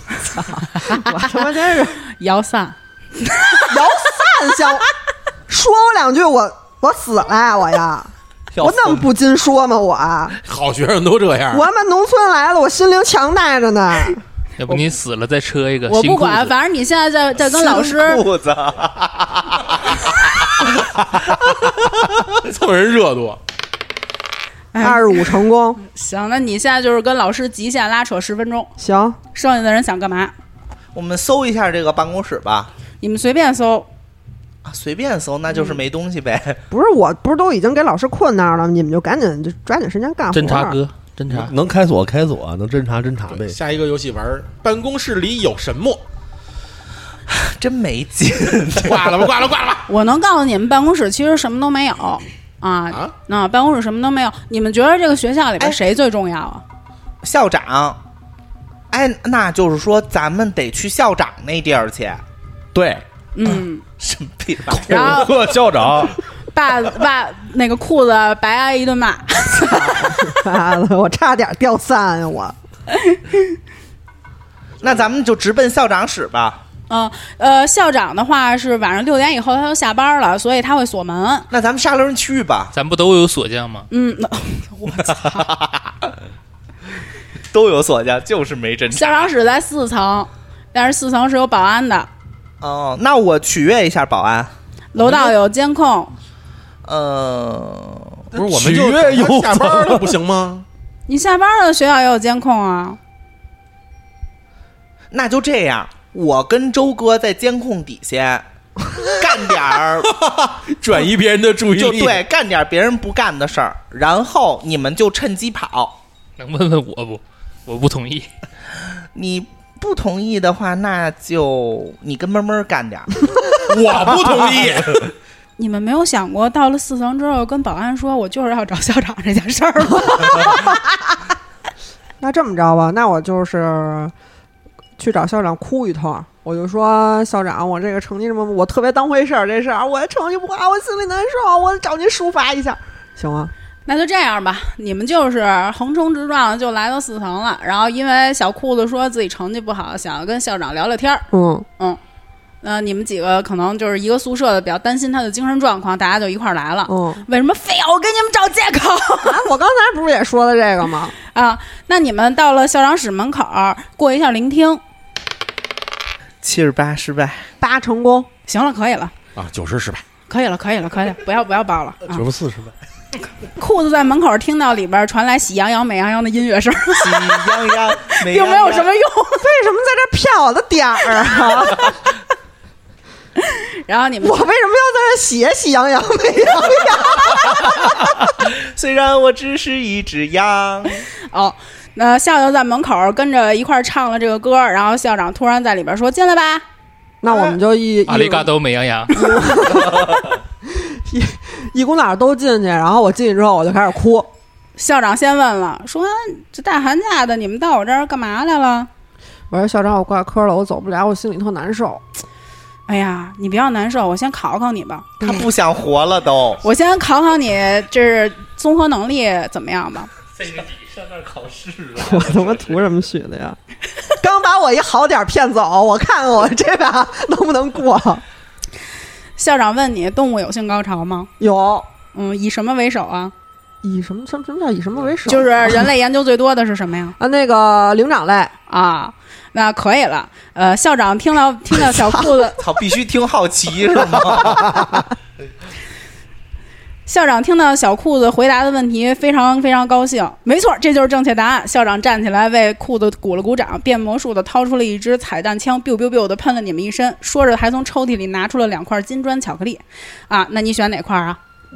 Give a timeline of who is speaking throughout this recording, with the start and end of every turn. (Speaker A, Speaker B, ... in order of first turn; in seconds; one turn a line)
Speaker A: 0.2-1.3
Speaker B: 0.4-2.0
Speaker A: 2.1-3.8
Speaker B: 3.7-4.8
Speaker B: 5.5-10.4
Speaker C: 10.4-11.7
Speaker B: 11.5-14.2
Speaker D: 14.6-16.5
Speaker A: 15.9-18.2
Speaker E: 17.4-20.7
Speaker C: 21.4-23.4
Speaker A: 24.7-28.7
Speaker B: 24.8-25.8
Speaker B: 28.8-29.2
Speaker A: 29.3-30.3
Speaker E: 30.9-32.7
Speaker A: 33.0-33.9
Speaker E: 34.6-36.6
Speaker B: 36.7-40.8
Speaker D: 40.3-41.5
Speaker F: 41.3-43.6
Speaker C: 43.3-46.0
Speaker E: 47.3-49.3
Speaker C: 48.8-49.9
Speaker A: 49.9-56.6
Speaker E: 57.2-58.0
Speaker E: 58.9-62.2
Speaker F: 62.7-63.0
Speaker A: 63.3-63.8
Speaker E: 64.0-65.4
Speaker F: 64.7-66.2
Speaker A: 64.9-65.3
Speaker A: 66.5-70.3
Speaker B: 69.8-72.5
Speaker A: 72.9-73.4
Speaker E: 74.8-76.6
Speaker A: 76.9-81.5
Speaker E: 81.5-82.7
Speaker D: 82.7-83.9
Speaker A: 83.9-85.5
Speaker E: 85.2-86.1
Speaker E: 87.5-89.3
Speaker A: 88.9-92.1
Speaker E: 92.6-94.5
Speaker A: 94.9-96.1
Speaker C: 95.0-95.3
Speaker E: 96.8-98.2
Speaker F: 98.3-100.1
Speaker C: 98.3-100.7
Speaker A: 101.1-103.0
Speaker E: 105.1-108.4
Speaker E: 109.1-110.1
Speaker C: 110.0-112.2
Speaker E: 111.7-116.0
Speaker D: 116.4-118.3
Speaker E: 119.1-123.2
Speaker C: 123.7-125.1
Speaker A: 125.6-130.6
Speaker B: 130.0-131.2
Speaker B: 132.2-134.1
Speaker B: 135.0-143.5
Speaker A: 143.8-151.2
Speaker B: 151.3-151.7
Speaker A: 152.6-159.4
Speaker B: 156.9-157.2
Speaker B: 159.2-161.1
Speaker A: 161.3-164.8
Speaker E: 166.4-167.5
Speaker B: 167.6-168.3
Speaker A: 168.5-169.1
Speaker C: 169.3-170.0
Speaker A: 170.3-172.2
Speaker F: 172.1-172.7
Speaker A: 173.6-179.5
Speaker E: 176.9-178.9
Speaker B: 179.4-182.0
Speaker A: 183.4-184.4
Speaker B: 184.2-188.2
Speaker E: 188.4-191.0
Speaker A: 191.3-196.6
Speaker B: 197.2-198.5
Speaker E: 197.3-197.6
Speaker D: 198.1-199.2
Speaker B: 199.1-204.3
Speaker A: 204.8-208.9
Speaker B: 209.5-212.0
Speaker A: 212.9-215.1
Speaker E: 215.2-216.6
Speaker A: 216.6-220.1
Speaker D: 220.4-221.8
Speaker B: 221.9-223.6
Speaker B: 224.2-228.2
Speaker A: 229.4-231.3
Speaker B: 231.4-231.9
Speaker A: 232.1-233.3
Speaker B: 233.8-235.9
Speaker A: 235.2-237.2
Speaker B: 237.2-238.5
Speaker A: 238.7-242.6
Speaker E: 242.6-244.9
Speaker A: 247.1-261.4